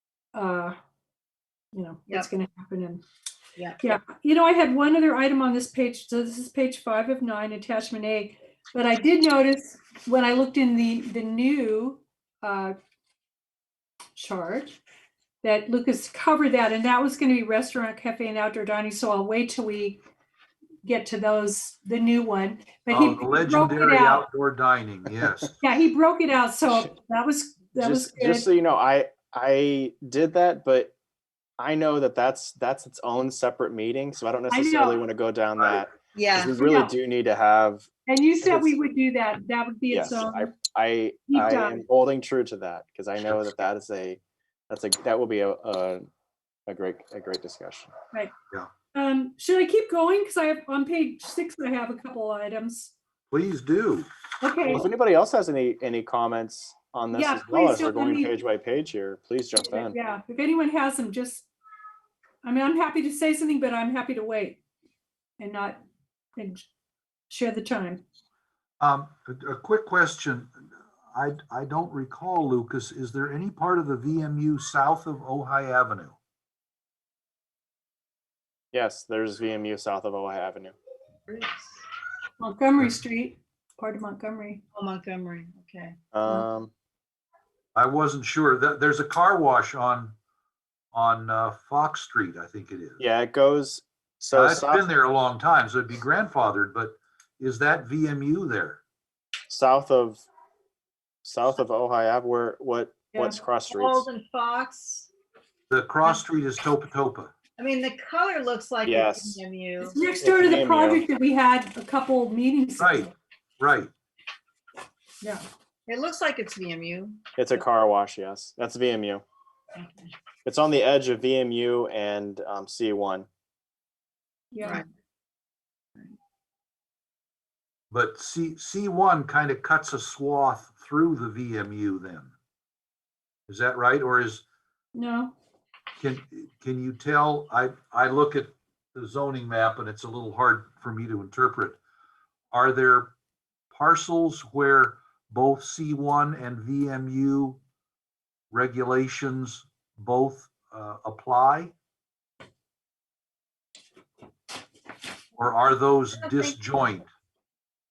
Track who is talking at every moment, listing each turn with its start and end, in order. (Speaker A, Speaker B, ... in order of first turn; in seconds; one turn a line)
Speaker A: 0.3-0.8
Speaker A: 1.7-3.0
Speaker B: 3.6-3.9
Speaker A: 3.8-12.8
Speaker A: 14.2-14.8
Speaker A: 15.4-20.0
Speaker A: 20.8-24.3
Speaker C: 22.9-25.6
Speaker A: 25.6-28.5
Speaker D: 27.8-30.9
Speaker D: 31.6-37.9
Speaker A: 34.5-35.0
Speaker B: 36.1-36.5
Speaker A: 36.5-37.0
Speaker A: 38.1-40.5
Speaker D: 38.4-38.8
Speaker D: 39.9-46.1
Speaker A: 41.3-41.8
Speaker D: 46.7-47.9
Speaker A: 48.9-52.9
Speaker C: 53.3-54.1
Speaker A: 54.4-54.9
Speaker D: 54.7-60.0
Speaker A: 57.1-58.3
Speaker A: 59.7-61.5
Speaker A: 62.4-64.6
Speaker A: 65.4-65.8
Speaker A: 66.4-66.7
Speaker A: 67.3-68.0
Speaker C: 68.8-76.2
Speaker D: 78.7-80.8
Speaker B: 81.3-81.8
Speaker A: 82.4-84.6
Speaker B: 84.7-86.5
Speaker D: 86.1-86.7
Speaker C: 87.8-90.2
Speaker C: 90.9-93.0
Speaker D: 93.0-94.9
Speaker C: 94.3-98.8
Speaker D: 99.5-100.2
Speaker D: 101.2-104.1
Speaker A: 103.1-103.4
Speaker B: 103.7-105.1
Speaker C: 105.7-107.3
Speaker B: 107.6-110.0
Speaker D: 108.8-109.4
Speaker A: 109.8-113.1
Speaker D: 110.2-111.0
Speaker C: 112.8-113.9
Speaker B: 115.9-117.2
Speaker D: 117.4-119.2
Speaker B: 119.8-120.1
Speaker D: 120.5-123.3
Speaker A: 124.5-124.8
Speaker B: 124.6-124.9
Speaker C: 127.9-132.3
Speaker C: 133.5-134.4
Speaker A: 134.9-135.3
Speaker C: 136.0-141.8
Speaker C: 142.5-143.1
Speaker C: 143.7-147.6
Speaker C: 148.5-151.7
Speaker C: 155.4-157.1